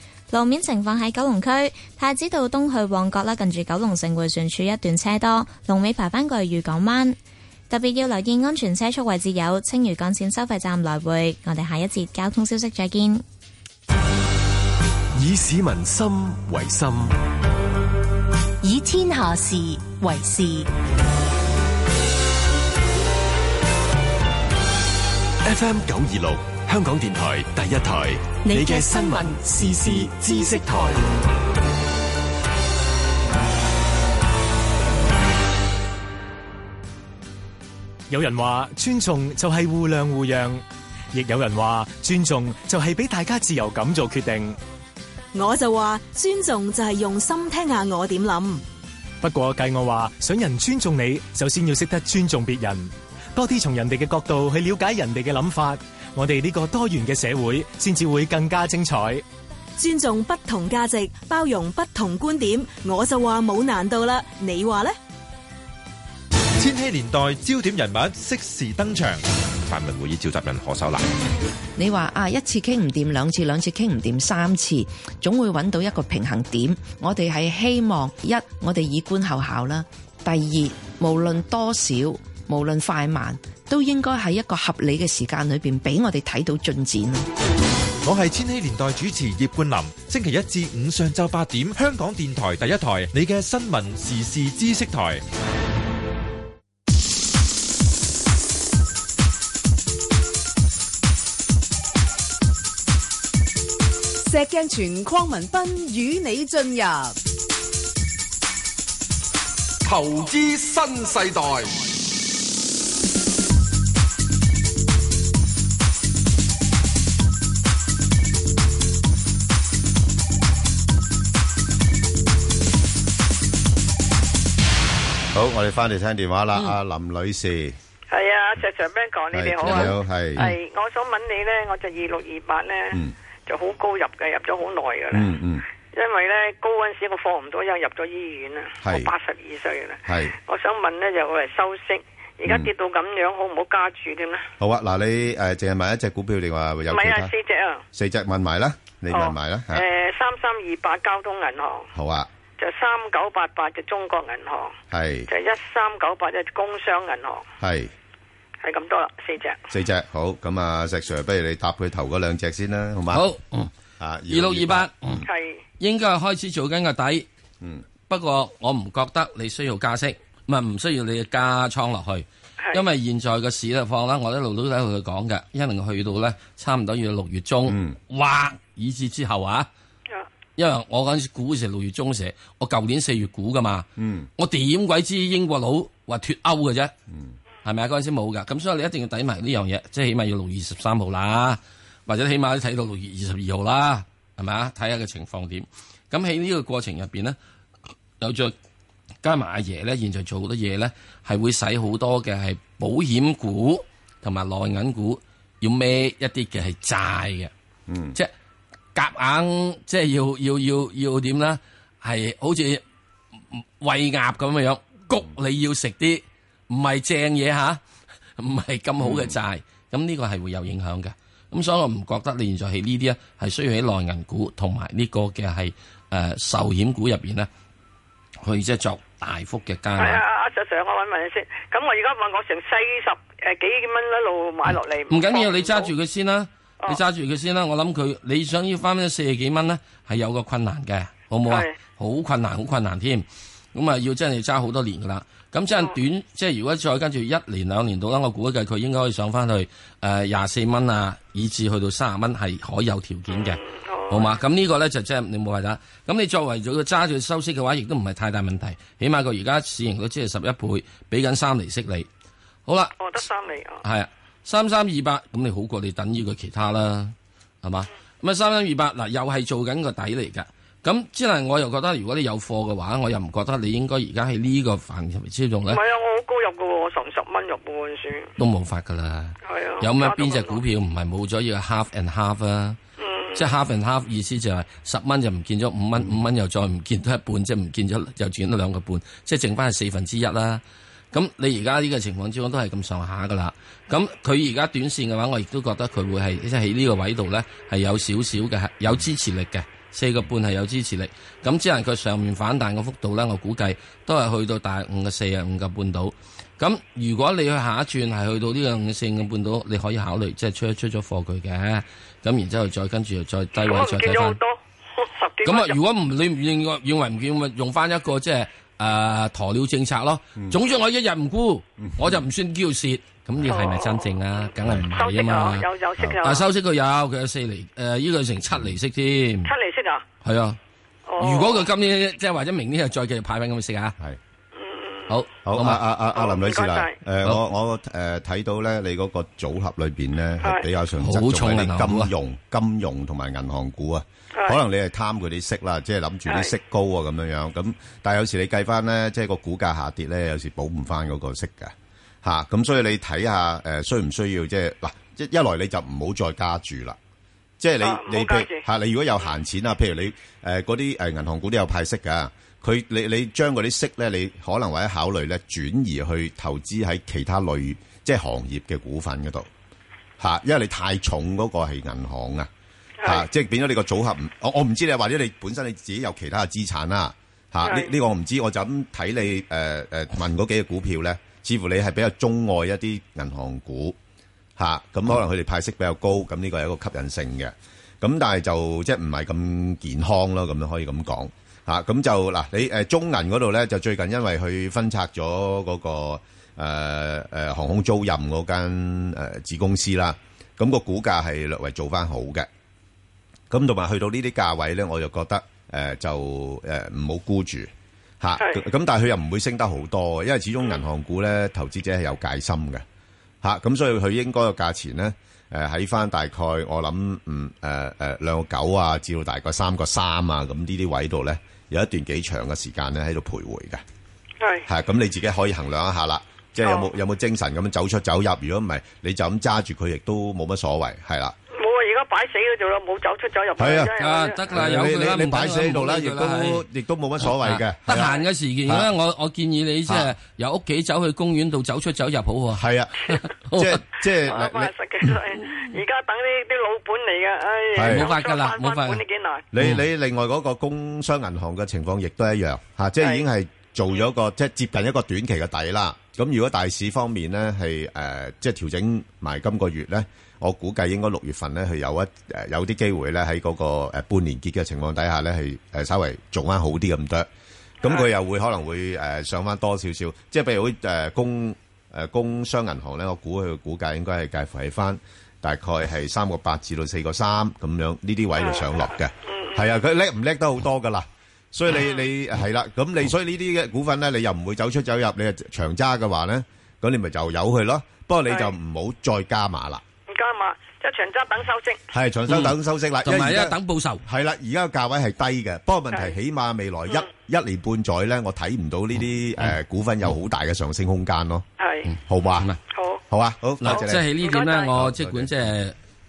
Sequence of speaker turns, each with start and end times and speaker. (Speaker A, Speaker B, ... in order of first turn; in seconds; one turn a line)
Speaker A: 0.3-7.2
Speaker A: 7.7-13.2
Speaker B: 15.1-17.2
Speaker C: 18.6-20.7
Speaker B: 25.4-31.0
Speaker C: 28.5-29.4
Speaker D: 38.1-44.6
Speaker E: 45.3-48.6
Speaker D: 49.2-59.2
Speaker E: 59.8-65.0
Speaker F: 66.6-71.1
Speaker G: 71.8-87.3
Speaker F: 88.0-95.2
Speaker H: 104.2-107.1
Speaker I: 109.8-111.8
Speaker J: 125.3-127.8
Speaker K: 128.1-135.3
Speaker J: 129.3-130.5
Speaker L: 129.7-130.5
Speaker J: 135.1-135.6
Speaker K: 135.9-144.5
Speaker J: 138.8-139.1
Speaker J: 140.1-140.3
Speaker J: 142.4-142.7
Speaker J: 144.6-147.3
Speaker K: 146.9-147.8
Speaker J: 147.9-149.8
Speaker K: 149.1-151.9
Speaker J: 151.9-152.3
Speaker K: 152.6-154.8
Speaker J: 154.9-155.3
Speaker K: 155.3-157.5
Speaker J: 157.6-157.9
Speaker K: 158.6-159.6
Speaker J: 159.7-163.2
Speaker L: 163.1-163.7
Speaker J: 164.0-165.3
Speaker L: 164.3-165.2
Speaker K: 165.2-165.6
Speaker L: 165.8-167.3
Speaker L: 168.1-179.7
Speaker J: 177.7-178.0
Speaker L: 180.6-186.9
Speaker J: 184.0-184.3
Speaker J: 187.1-187.3
Speaker L: 187.6-197.4
Speaker L: 198.2-198.5
Speaker L: 199.2-207.5
Speaker J: 207.9-208.2
Speaker L: 208.9-212.8
Speaker L: 213.5-217.8
Speaker L: 218.4-227.5
Speaker J: 219.0-219.4
Speaker L: 228.4-230.2
Speaker K: 230.0-235.9
Speaker L: 234.7-262.1
Speaker K: 241.5-241.7
Speaker K: 253.3-254.4
Speaker L: 262.7-263.0
Speaker K: 263.0-263.8
Speaker L: 263.8-275.8
Speaker K: 275.7-278.3
Speaker L: 278.4-282.8
Speaker K: 279.4-280.6
Speaker K: 283.0-283.5
Speaker L: 283.4-314.4
Speaker K: 313.6-315.8
Speaker L: 315.4-325.7
Speaker J: 321.8-322.2
Speaker K: 323.5-324.1
Speaker K: 325.0-326.5
Speaker L: 326.2-329.5
Speaker K: 329.5-330.0
Speaker L: 330.2-330.6
Speaker K: 331.1-331.7
Speaker L: 331.2-334.0
Speaker K: 334.5-335.1
Speaker L: 335.1-335.8
Speaker J: 335.4-357.0
Speaker K: 336.1-337.0
Speaker L: 341.0-342.1
Speaker K: 346.3-346.5
Speaker J: 357.6-369.5
Speaker K: 357.8-358.6
Speaker J: 370.2-372.5
Speaker J: 373.0-384.0
Speaker K: 377.6-377.9
Speaker J: 384.6-402.5
Speaker J: 403.5-412.8
Speaker J: 413.4-423.8
Speaker K: 424.4-424.7
Speaker J: 424.7-431.4
Speaker K: 426.6-426.9
Speaker K: 431.5-434.4
Speaker J: 433.6-433.9
Speaker L: 434.0-436.6
Speaker J: 434.5-438.9
Speaker L: 437.2-443.8
Speaker J: 439.9-440.1
Speaker J: 442.5-443.0
Speaker J: 443.5-444.7
Speaker K: 444.2-449.4
Speaker J: 447.8-448.1
Speaker L: 447.9-449.0
Speaker J: 449.5-467.3
Speaker J: 467.8-489.8
Speaker K: 478.4-479.7
Speaker K: 481.7-482.0
Speaker K: 490.1-491.8
Speaker J: 491.9-501.4
Speaker L: 492.3-494.0
Speaker K: 501.6-501.9
Speaker L: 501.9-502.6
Speaker J: 502.1-502.5
Speaker K: 502.7-503.0
Speaker J: 503.1-504.1
Speaker L: 503.6-505.8
Speaker K: 503.7-504.7
Speaker J: 504.7-505.5